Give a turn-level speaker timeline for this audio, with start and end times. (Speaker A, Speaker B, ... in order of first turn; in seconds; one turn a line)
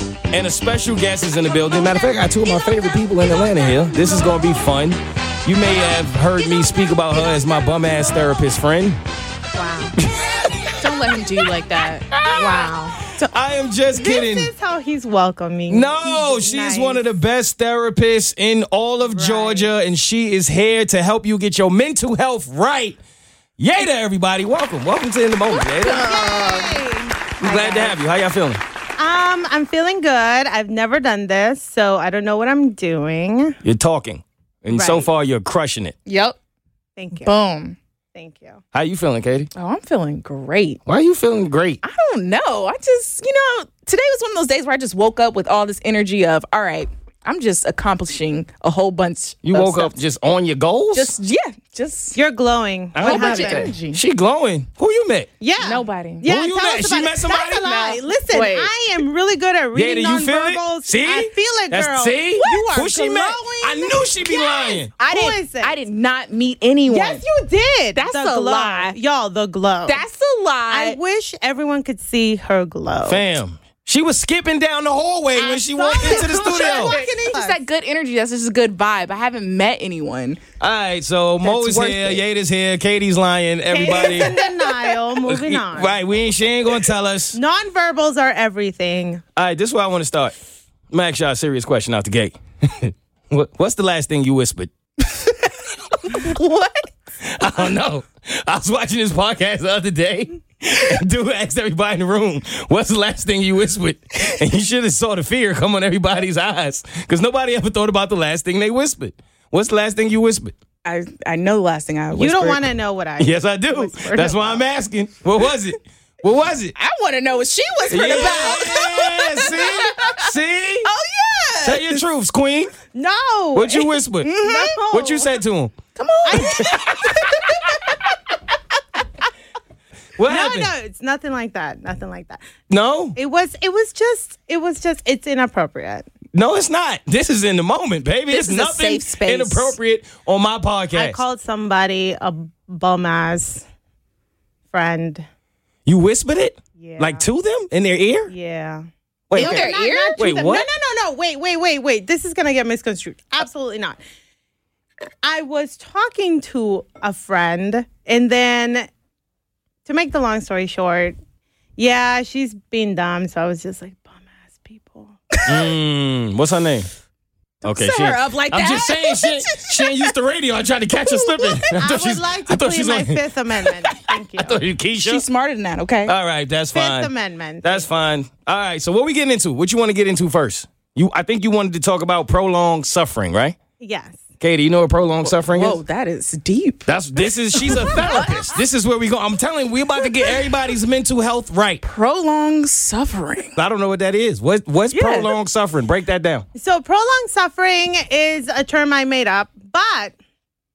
Speaker A: 0.3-9.0
Speaker B: 9.5-9.9
Speaker A: 10.0-10.8
Speaker C: 10.8-12.1
Speaker A: 12.1-12.7
Speaker B: 12.3-13.0
Speaker A: 13.3-14.5
Speaker B: 13.9-17.1
Speaker A: 15.7-23.0
Speaker B: 19.0-19.7
Speaker A: 23.6-26.1
Speaker C: 25.5-26.8
Speaker B: 25.9-27.9
Speaker A: 27.4-28.6
Speaker B: 29.0-33.6
Speaker A: 33.6-35.9
Speaker B: 34.7-35.1
Speaker C: 36.0-36.4
Speaker B: 37.0-37.3
Speaker C: 37.1-37.8
Speaker B: 38.1-38.6
Speaker A: 38.7-39.5
Speaker C: 39.5-40.8
Speaker A: 40.9-41.8
Speaker C: 41.8-50.0
Speaker A: 49.4-51.1
Speaker C: 50.9-52.2
Speaker B: 52.1-53.7
Speaker A: 52.9-55.3
Speaker C: 53.0-54.0
Speaker B: 55.4-65.8
Speaker C: 55.6-56.2
Speaker A: 56.2-57.6
Speaker C: 57.6-58.7
Speaker A: 59.7-64.9
Speaker C: 62.4-62.7
Speaker C: 65.0-67.2
Speaker B: 66.9-70.0
Speaker C: 67.9-69.0
Speaker C: 69.8-71.0
Speaker B: 70.7-73.2
Speaker A: 73.0-77.0
Speaker B: 75.4-77.6
Speaker C: 76.0-80.4
Speaker A: 80.6-84.4
Speaker C: 81.4-82.2
Speaker B: 83.7-86.0
Speaker A: 85.2-87.4
Speaker B: 87.3-89.2
Speaker A: 89.3-90.3
Speaker A: 90.9-94.7
Speaker C: 96.0-96.9
Speaker A: 97.2-110.5
Speaker C: 110.8-112.6
Speaker B: 112.2-114.6
Speaker A: 113.2-116.7
Speaker C: 116.7-120.2
Speaker A: 117.9-120.9
Speaker C: 120.8-122.0
Speaker A: 121.6-122.7
Speaker B: 122.9-125.3
Speaker A: 123.5-124.3
Speaker C: 124.2-124.8
Speaker A: 124.9-125.7
Speaker C: 125.9-127.2
Speaker B: 126.2-127.7
Speaker A: 126.3-127.2
Speaker A: 130.2-130.7
Speaker B: 130.3-132.4
Speaker A: 132.7-133.2
Speaker B: 133.2-136.1
Speaker A: 136.3-141.2
Speaker C: 138.3-139.8
Speaker B: 140.9-143.7
Speaker B: 144.7-145.2
Speaker A: 145.8-148.3
Speaker B: 146.8-147.2
Speaker B: 148.3-154.0
Speaker A: 149.3-150.7
Speaker C: 149.3-150.2
Speaker B: 155.2-158.9
Speaker B: 159.8-161.2
Speaker B: 161.8-165.4
Speaker A: 165.4-166.9
Speaker C: 167.6-170.1
Speaker A: 167.6-175.2
Speaker B: 171.7-174.6
Speaker C: 174.9-176.1
Speaker A: 176.0-177.1
Speaker B: 176.7-177.9
Speaker A: 177.6-183.6
Speaker B: 183.8-184.2
Speaker A: 184.4-185.8
Speaker C: 185.2-186.9
Speaker A: 186.8-191.8
Speaker C: 187.5-188.4
Speaker C: 191.8-193.5
Speaker A: 193.6-196.4
Speaker C: 194.9-195.3
Speaker B: 196.5-200.1